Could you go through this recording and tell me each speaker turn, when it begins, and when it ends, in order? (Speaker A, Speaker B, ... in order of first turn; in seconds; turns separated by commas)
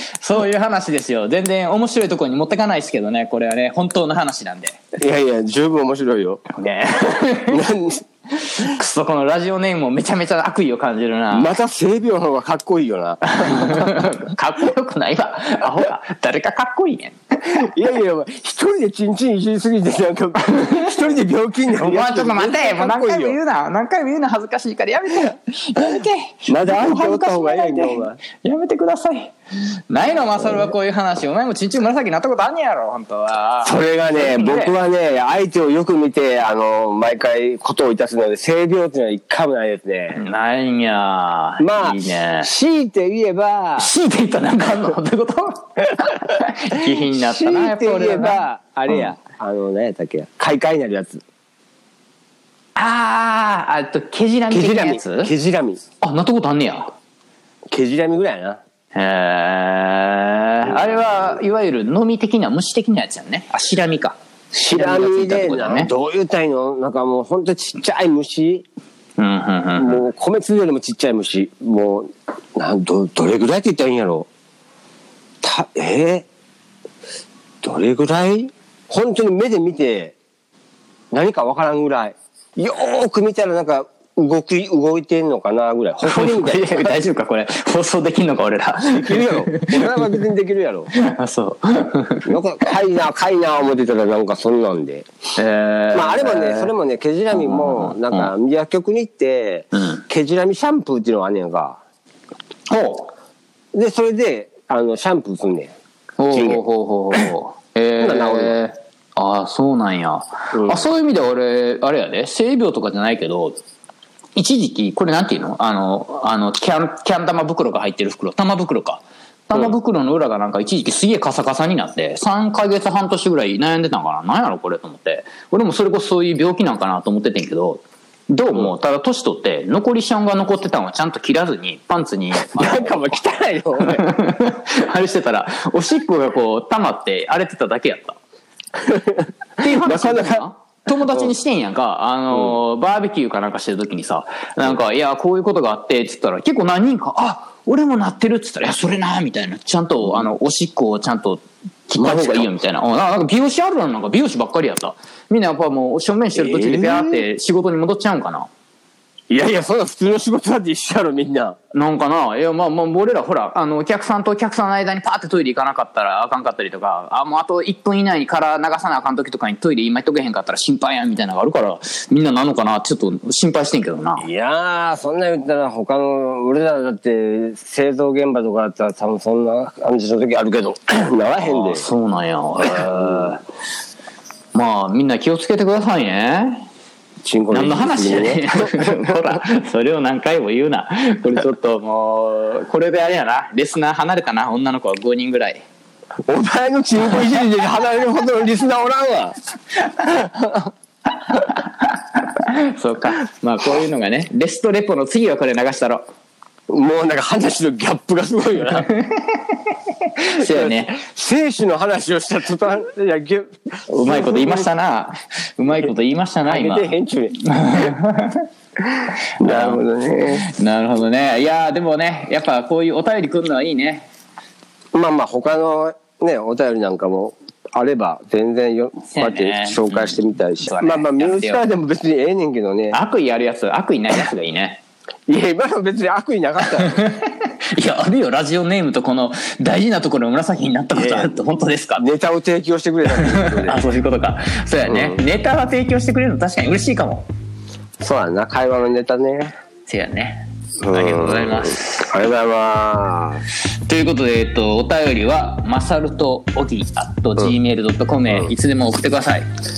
Speaker A: 0.2-4.8, Speaker B: 5.0-6.4, Speaker A: 6.5-7.6, Speaker B: 7.5-8.0, Speaker A: 8.3-11.5, Speaker B: 11.3-14.1, Speaker A: 13.3-17.7, Speaker B: 17.5-23.4, Speaker A: 20.5-21.2, Speaker A: 21.7-29.3, Speaker B: 26.5-28.2, Speaker A: 29.9-34.7, Speaker B: 33.6-40.3, Speaker A: 40.1-42.5, Speaker B: 41.6-43.9, Speaker A: 43.8-49.1, Speaker B: 46.8-51.2, Speaker A: 52.8-55.3, Speaker B: 54.5-55.8, Speaker A: 56.0-56.9, Speaker B: 57.7-58.6, Speaker A: 58.9-64.2, Speaker B: 60.7-61.2, Speaker B: 64.5-68.7, Speaker A: 64.7-65.9, Speaker A: 69.2-70.0, Speaker B: 69.8-74.3, Speaker B: 75.4-76.3, Speaker B: 77.6-80.2, Speaker B: 81.1-87.0, Speaker A: 86.0-89.9, Speaker B: 88.9-90.9, Speaker A: 90.9-92.3, Speaker B: 92.3-95.1, Speaker A: 95.4-96.7, Speaker B: 95.9-101.8, Speaker A: 97.3-98.3, Speaker A: 99.7-100.0, Speaker A: 102.7-103.1, Speaker B: 103.7-105.7, Speaker A: 106.2-113.6, Speaker B: 106.3-106.6, Speaker B: 108.0-108.6, Speaker B: 110.5-110.8, Speaker A: 114.4-133.2, Speaker B: 132.3-134.1, Speaker A: 133.8-138.2, Speaker B: 138.8-140.4, Speaker A: 139.6-158.5, Speaker B: 152.0-152.6, Speaker B: 156.3-157.3, Speaker B: 159.3-161.6, Speaker A: 161.7-174.3, Speaker B: 174.2-181.8, Speaker A: 181.4-183.4, Speaker B: 182.7-183.3, Speaker A: 184.5-186.7, Speaker B: 187.2-189.4, Speaker A: 187.5-195.6, Speaker B: 196.3-199.3, Speaker B: 200.0-200.7, Speaker A: 201.3-206.1, Speaker B: 206.7-208.9, Speaker A: 208.8-211.0, Speaker B: 210.4-214.7, Speaker A: 213.9-218.5, Speaker B: 216.5-217.9, Speaker A: 219.4-224.1, Speaker B: 219.4-220.5, Speaker B: 224.9-233.0, Speaker A: 229.1-231.7, Speaker A: 232.9-234.8, Speaker B: 235.3-237.0, Speaker A: 236.7-242.1, Speaker B: 240.9-241.4, Speaker B: 242.0-243.8, Speaker A: 243.1-247.2, Speaker B: 244.9-245.2, Speaker B: 248.0-249.5, Speaker A: 249.9-252.1, Speaker B: 250.8-253.4, Speaker A: 253.9-259.5